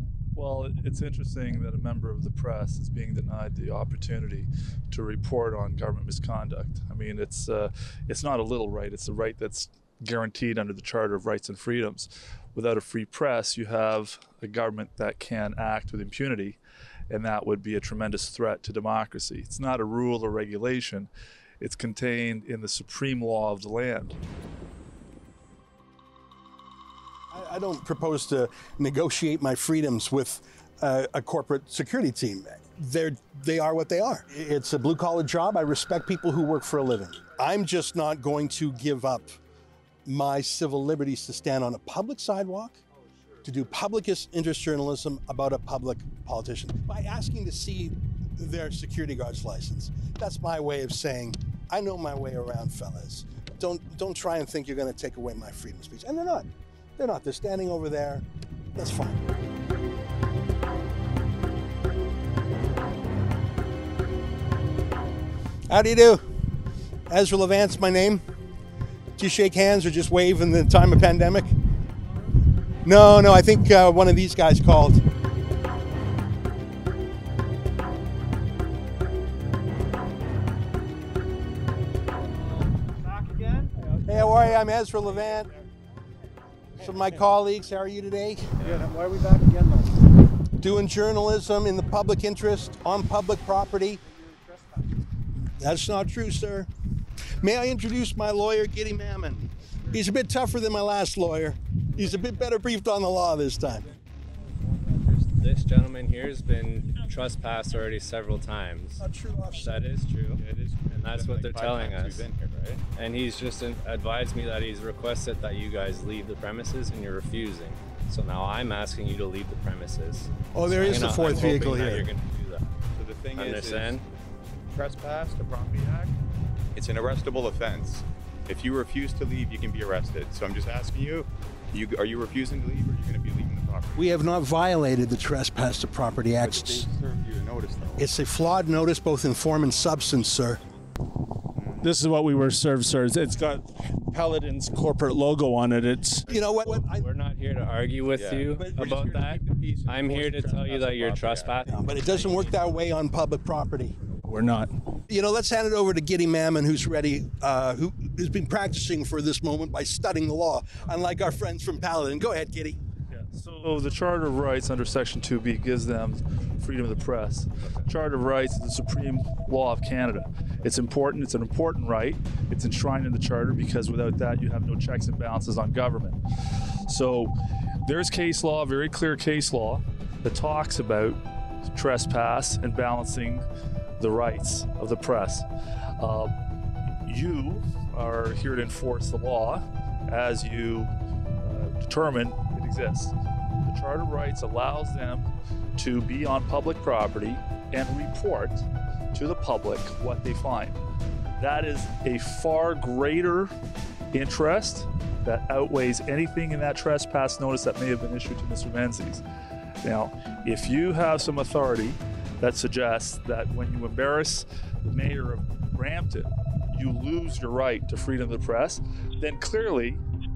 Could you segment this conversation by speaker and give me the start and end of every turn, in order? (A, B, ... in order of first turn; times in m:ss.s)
0:00.3-0:16.6 A
0:17.1-0:24.2 A
0:27.3-0:39.4 B
0:40.0-0:42.8 B
0:43.4-0:58.2 B
0:58.8-0:59.2 B
1:05.7-1:06.2 B
1:07.1-1:08.2 B
1:09.2-1:11.5 B
1:12.8-1:15.0 B
1:22.6-1:25.6 C
1:24.1-1:25.5 B
1:26.8-1:27.2 C
1:26.8-1:28.5 B
1:28.6-1:30.0 C
1:30.6-1:34.0 B
1:34.0-1:35.0 C
1:35.6-1:36.7 B
1:37.4-1:43.8 B
1:45.3-1:49.0 D
1:49.0-1:49.8 B
1:49.5-1:52.3 D
1:50.4-1:52.8 E
1:52.9-2:02.7 D
2:00.5-2:02.1 B
2:02.9-2:04.0 E
2:03.4-2:04.0 D
2:04.7-2:06.0 E
2:05.7-2:06.1 A
2:06.7-2:14.1 E
2:13.9-2:16.9 B
2:16.4-2:18.1 E
2:18.0-2:20.6 B
2:21.6-2:21.9 E
2:21.8-2:26.3 F
2:26.3-2:27.1 B
2:26.3-2:32.5 D
2:28.5-2:29.2 B
2:29.9-2:30.9 C
2:31.7-2:34.0 B
2:34.2-2:34.8 F
2:35.1-2:42.8 B
2:43.1-2:56.2 A
2:56.9-3:03.4 A
3:04.0-3:05.4 A
3:06.0-3:06.3 A
3:07.0-3:13.1 A
3:13.6-3:20.8 A
3:21.4-3:23.5 A
3:24.1-3:29.2 A
3:29.8-3:40.0 A